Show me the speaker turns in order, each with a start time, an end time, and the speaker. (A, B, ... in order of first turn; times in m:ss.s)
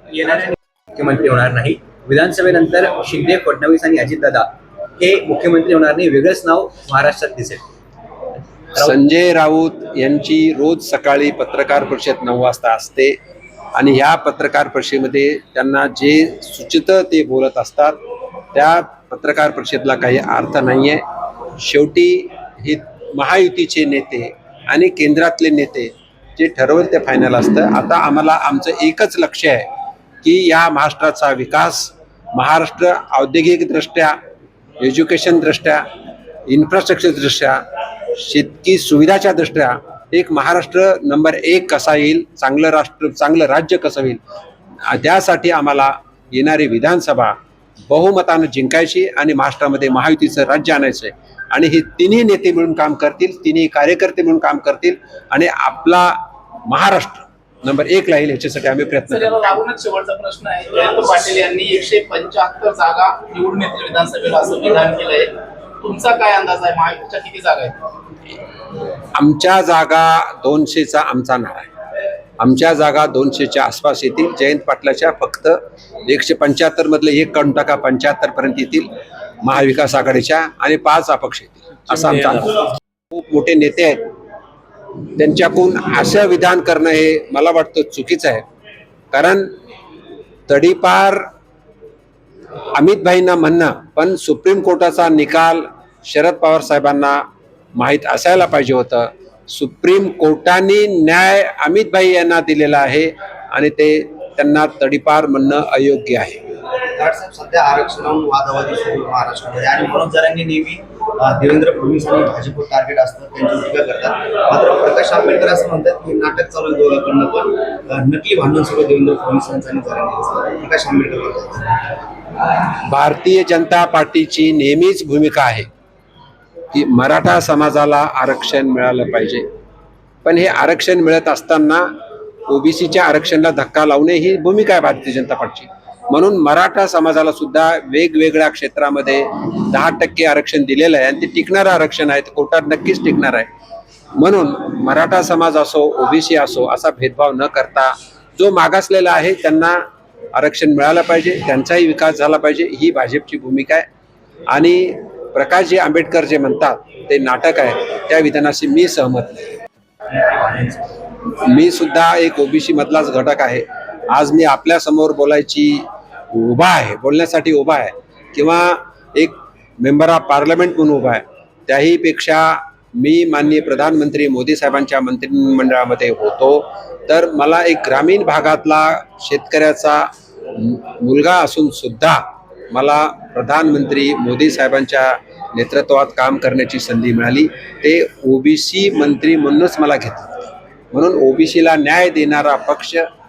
0:00.1-0:07.6 A
0:08.8-0:13.2 B
0:13.8-0:18.0 B
0:18.5-0:21.0 B
0:21.6-0:29.7 B
0:30.2-0:34.2 B
0:34.8-0:35.8 B
0:36.5-0:44.2 B
0:44.9-0:47.3 B
0:47.9-0:56.2 B
0:56.7-0:59.6 B
0:59.1-1:07.8 C
1:09.1-1:11.7 B
1:12.4-1:18.9 B
1:19.4-1:24.0 B
1:25.2-1:28.4 B
1:29.1-1:29.5 B
1:30.5-1:31.2 B
1:32.8-1:37.2 B
1:37.8-1:46.4 B
1:46.9-2:01.6 D
2:02.7-2:05.7 B
2:06.7-2:09.4 B
2:10.2-2:11.8 B
2:12.5-2:23.5 B
2:24.2-2:29.8 B
2:30.3-2:33.8 B
2:34.5-2:39.6 B
2:40.2-2:40.8 D
2:41.4-3:13.0 B